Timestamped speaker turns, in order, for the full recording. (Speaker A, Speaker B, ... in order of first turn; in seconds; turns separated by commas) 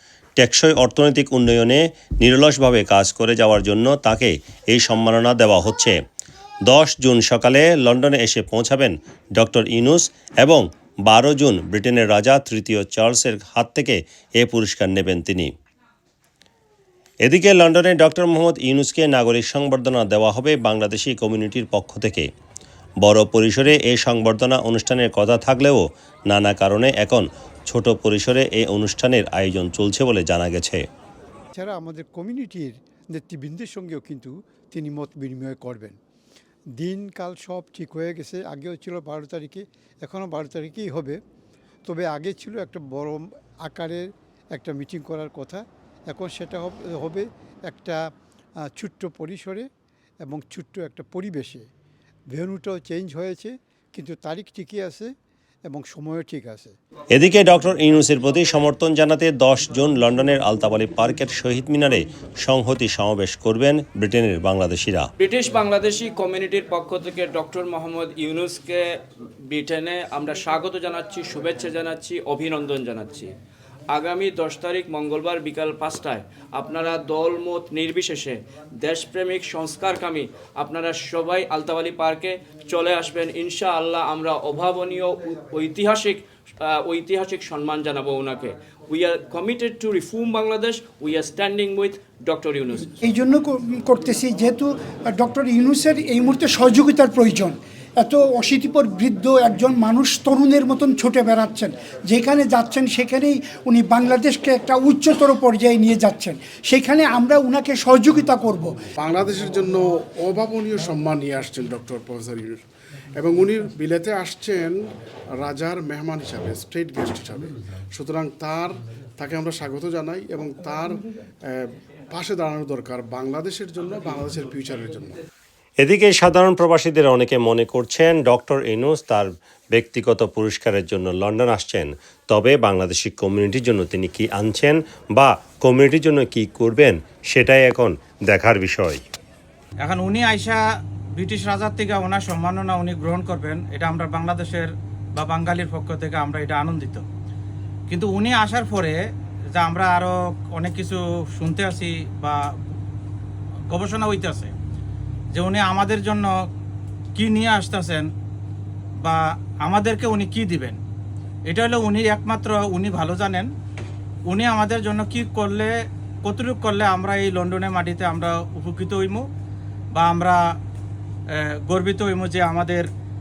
Speaker A: 0.4-6.0, Speaker A: 6.7-15.5, Speaker A: 17.2-22.3, Speaker A: 23.0-30.8, Speaker B: 31.5-36.0, Speaker B: 36.8-41.2, Speaker B: 41.8-48.0, Speaker B: 48.7-49.7, Speaker B: 50.2-51.7, Speaker B: 52.3-55.1, Speaker B: 55.6-56.7, Speaker A: 57.1-65.1, Speaker C: 65.2-73.3, Speaker C: 73.9-92.9, Speaker D: 93.0-108.8, Speaker E: 109.0-112.6, Speaker E: 113.2-114.8, Speaker E: 115.3-125.2, Speaker A: 125.8-139.0, Speaker F: 139.8-140.6, Speaker F: 141.2-147.0, Speaker F: 147.9-148.9, Speaker F: 149.5-152.4, Speaker F: 153.7-154.5, Speaker F: 155.3-156.3, Speaker F: 157.2-158.1, Speaker F: 159.0-160.8, Speaker F: 161.5-163.5, Speaker F: 164.3-165.7, Speaker F: 166.2-169.2, Speaker F: 169.9-170.4, Speaker F: 171.3-172.8